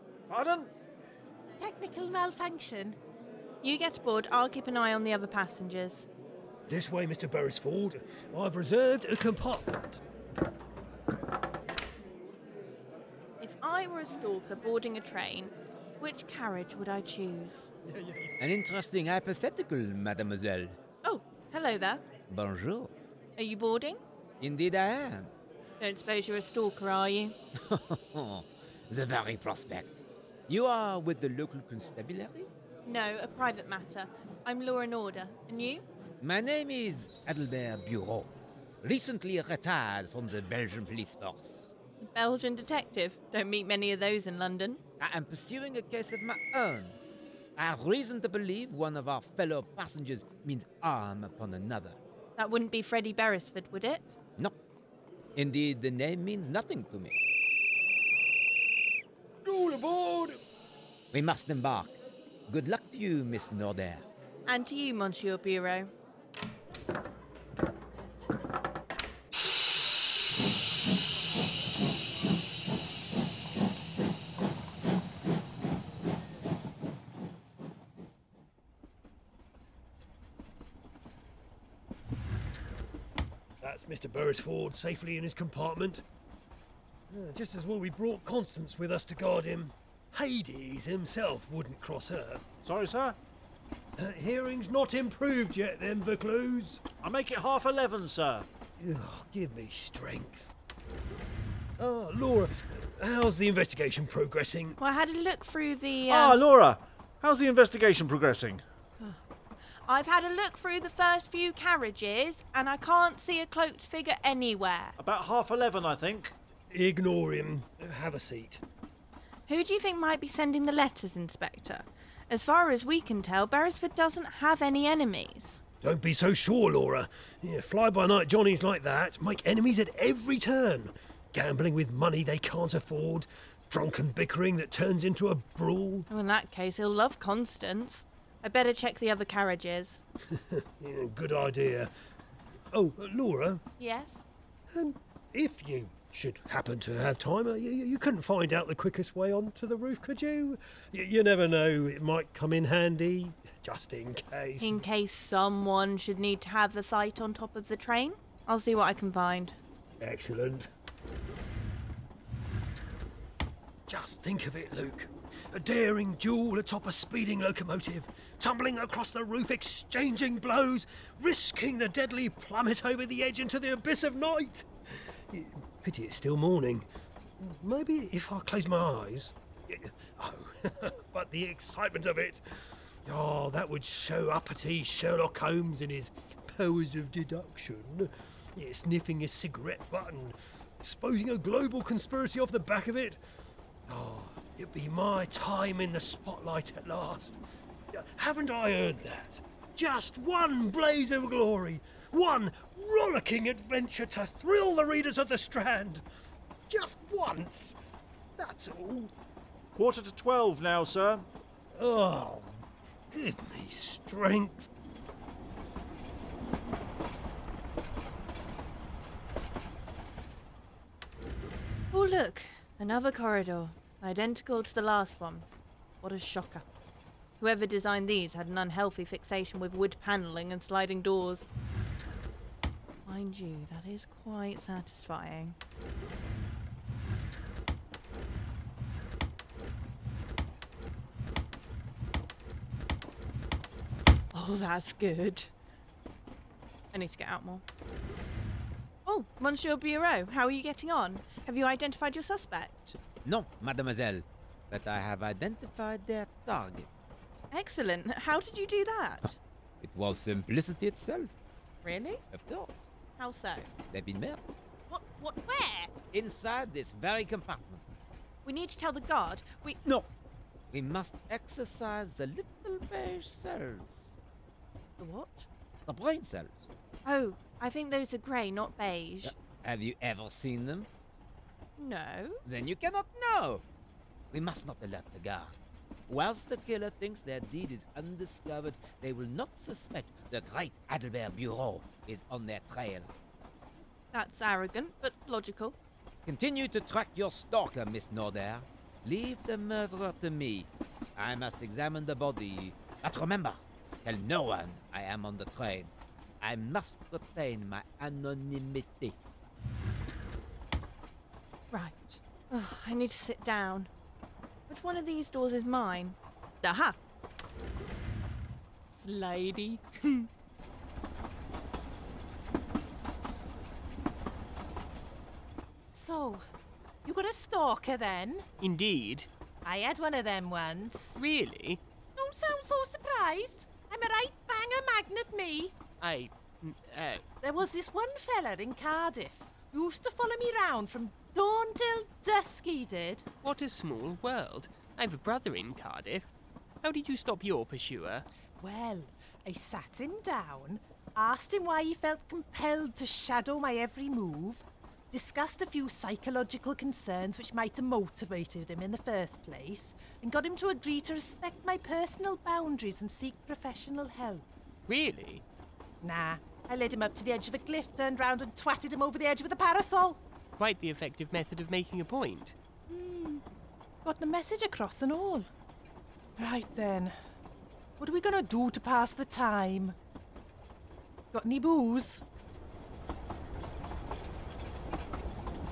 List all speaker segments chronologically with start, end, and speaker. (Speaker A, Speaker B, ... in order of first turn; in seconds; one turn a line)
Speaker A: 0.3-0.7
Speaker B: 1.6-3.0
Speaker C: 3.6-6.1
Speaker D: 6.7-10.0
Speaker C: 13.4-17.7
Speaker D: 17.9-18.3
Speaker E: 18.4-20.8
Speaker C: 21.0-22.0
Speaker E: 22.3-22.9
Speaker C: 23.4-24.0
Speaker E: 24.4-25.3
Speaker C: 25.8-27.4
Speaker E: 27.6-32.5
Speaker C: 32.9-35.8
Speaker E: 36.2-41.7
Speaker C: 42.0-44.8
Speaker E: 45.0-47.0
Speaker E: 47.6-52.0
Speaker C: 52.4-54.1
Speaker E: 55.4-57.2
Speaker D: 59.4-60.4
Speaker E: 61.1-62.0
Speaker E: 62.5-64.0
Speaker C: 64.5-65.9
Speaker D: 83.6-86.0
Speaker D: 87.1-92.5
Speaker A: 92.6-93.2
Speaker D: 94.0-96.8
Speaker A: 97.0-98.5
Speaker D: 98.8-100.5
Speaker D: 101.8-104.8
Speaker C: 104.8-106.4
Speaker A: 106.1-108.6
Speaker C: 109.9-115.0
Speaker A: 115.0-116.3
Speaker D: 116.7-118.6
Speaker C: 119.5-125.6
Speaker D: 125.8-136.1
Speaker C: 136.1-140.0
Speaker D: 140.3-141.9
Speaker D: 142.7-143.6
Speaker C: 143.8-144.2
Speaker D: 144.7-154.8
Speaker C: 154.6-159.6
Speaker D: 160.0-160.7
Speaker D: 163.9-174.7
Speaker D: 175.3-176.9
Speaker D: 177.4-182.4
Speaker D: 183.1-193.2
Speaker D: 193.9-197.4
Speaker D: 197.9-206.0
Speaker D: 206.7-207.8
Speaker D: 208.4-209.1
Speaker A: 209.8-211.3
Speaker D: 211.7-214.7
Speaker C: 221.9-225.5
Speaker C: 226.0-226.7
Speaker C: 227.4-231.5
Speaker C: 233.1-235.6
Speaker C: 244.3-245.5
Speaker C: 246.9-247.6
Speaker C: 249.1-253.0
Speaker E: 253.2-256.9
Speaker C: 257.5-259.4
Speaker E: 259.8-261.3
Speaker C: 261.8-262.2
Speaker E: 262.3-262.8
Speaker C: 263.2-263.7
Speaker E: 263.9-264.4
Speaker C: 264.9-265.9
Speaker E: 266.1-267.9
Speaker C: 268.4-269.8
Speaker E: 270.7-274.2
Speaker C: 275.0-275.5
Speaker E: 275.9-276.7
Speaker C: 277.1-279.3
Speaker E: 279.2-280.9
Speaker C: 281.8-282.4
Speaker E: 282.4-283.6
Speaker E: 284.3-285.5
Speaker E: 286.1-293.1
Speaker C: 294.1-295.8
Speaker E: 296.2-309.2
Speaker C: 311.7-313.9
Speaker C: 314.7-317.0
Speaker C: 318.9-320.3
Speaker B: 325.9-326.4
Speaker B: 327.1-328.5
Speaker F: 328.6-329.3
Speaker B: 329.6-331.2
Speaker F: 331.2-331.8
Speaker B: 332.2-335.8
Speaker F: 336.0-337.2
Speaker B: 337.4-343.3
Speaker F: 343.4-346.3
Speaker F: 346.8-348.3
Speaker B: 348.6-364.4
Speaker F: 364.9-365.4
Speaker B: 366.0-370.2
Speaker F: 370.6-372.6
Speaker B: 372.9-373.4
Speaker B: 374.0-375.5
Speaker B: 376.4-377.2
Speaker B: 378.0-380.0
Speaker B: 381.3-382.2